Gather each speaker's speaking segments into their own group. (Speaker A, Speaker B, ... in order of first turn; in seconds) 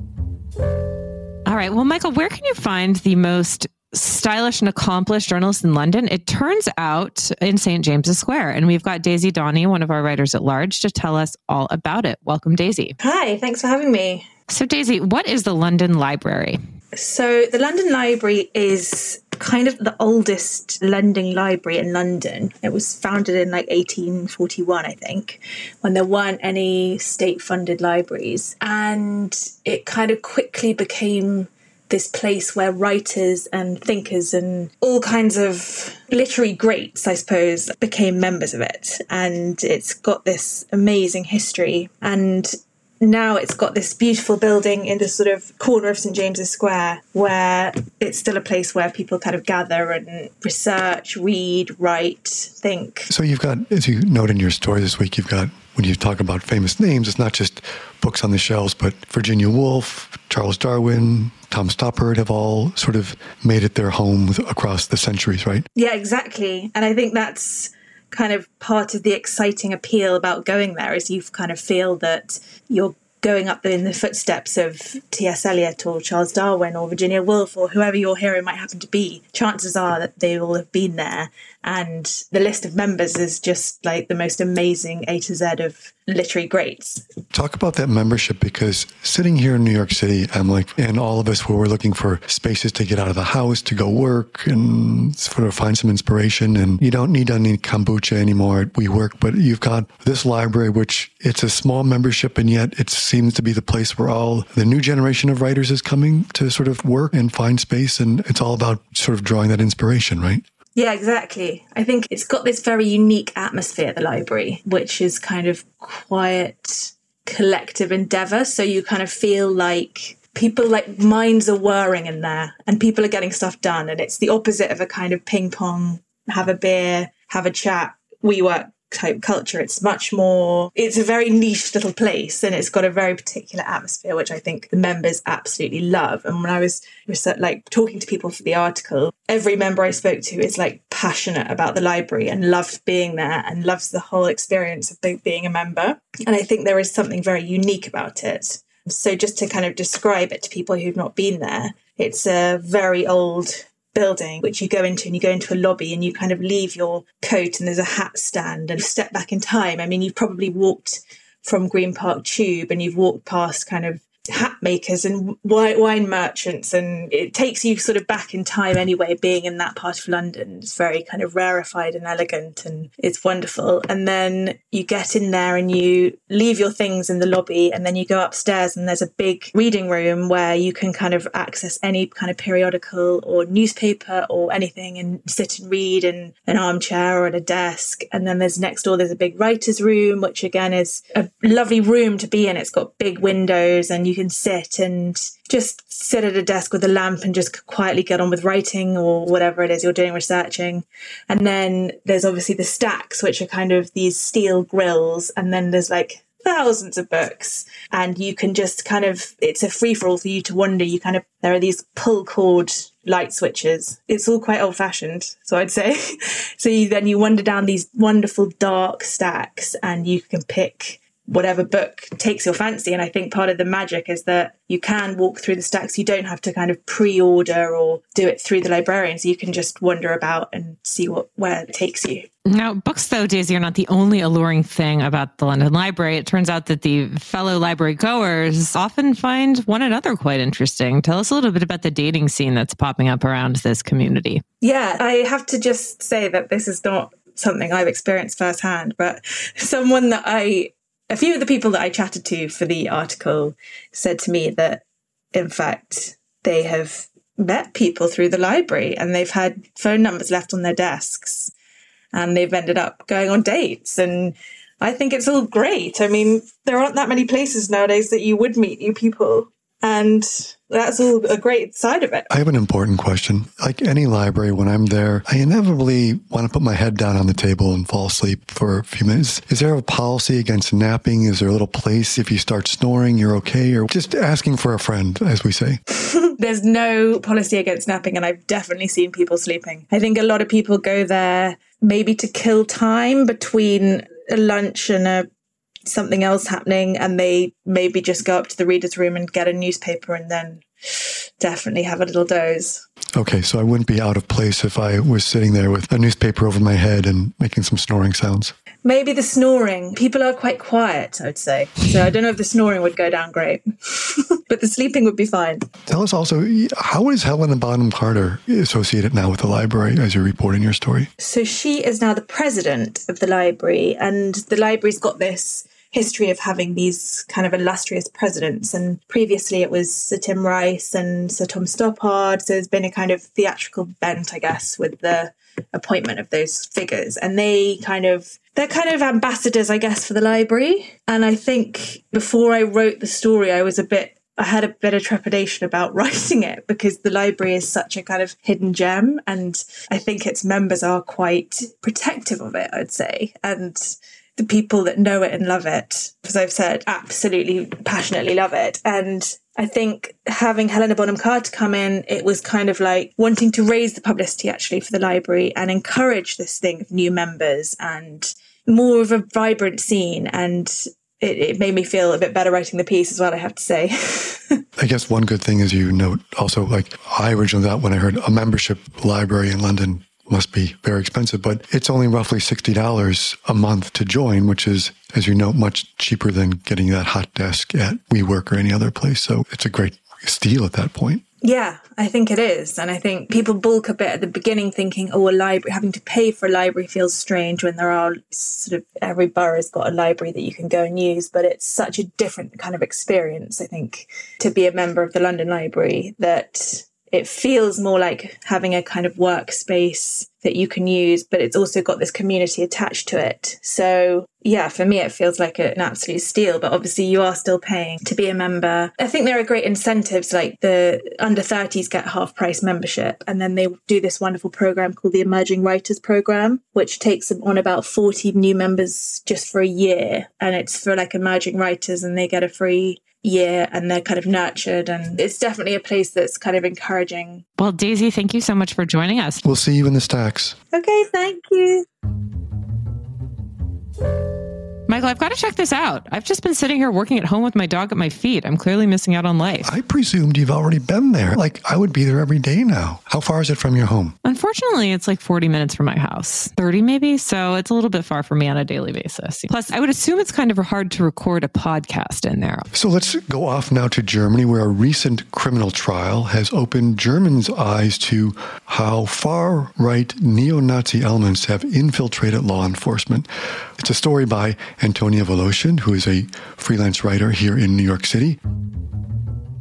Speaker A: 1.4-12.9, 14.5-16.6, 232.4-244.4, 437.6-439.4, 444.9-449.7, 454.2-462.7
Speaker B: 13.0-14.2, 16.9-53.1, 65.7-87.0, 110.8-216.0, 216.6-232.3, 244.6-261.5, 262.1-272.3, 286.4-295.3, 295.9-302.8, 308.8-315.6, 321.2-374.6, 391.4-437.4, 440.7-441.9
Speaker C: 53.1-65.6, 87.3-110.4, 272.3-285.8, 303.1-308.5, 315.9-321.1, 374.8-391.2, 439.4-440.6, 449.6-454.1, 462.7-473.3, 473.8-478.4